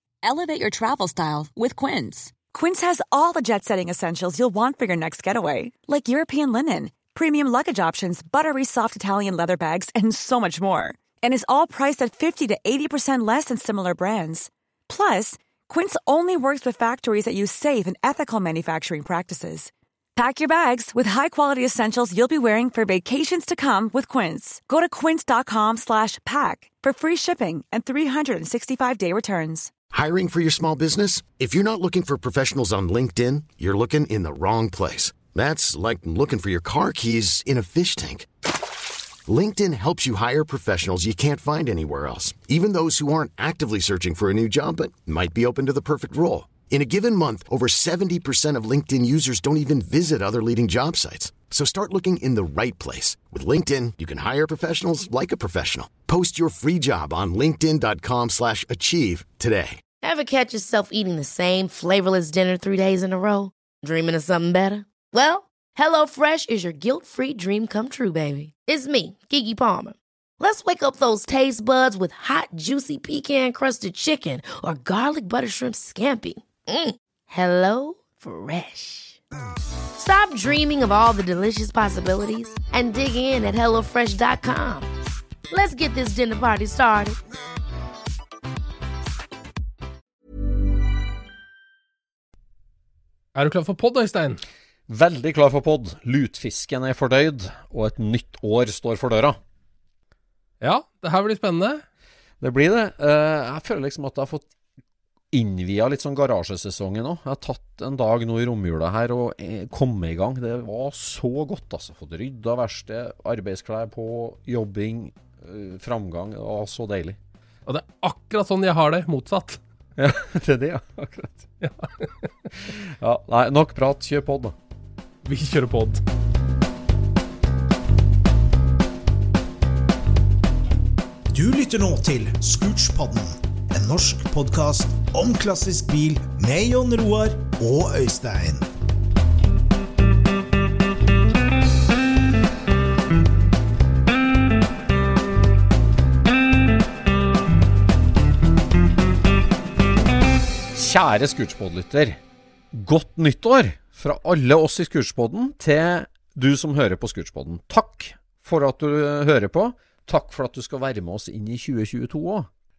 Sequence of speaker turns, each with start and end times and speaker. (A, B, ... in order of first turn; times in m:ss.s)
0:00.2-0:02.3 A
0:02.5-0:29.7 B
0:29.9-0:38.3 C
0:39.3-0:59.8 C
1:00.0-1:19.2 D
1:20.0-1:24.9 D
1:25.5-1:27.2 D
1:33.3-1:34.4 E
1:34.9-1:39.4 F
1:40.6-1:41.8 E
1:42.4-1:44.5 F
1:45.3-1:57.2 F
1:57.6-1:59.6 E
2:00.0-2:01.5 F
2:01.6-2:02.3 E
2:02.5-2:04.6 F
2:05.2-2:06.0 E
2:11.3-2:18.7 G
2:30.7-2:32.2 F
2:32.7-2:42.5 F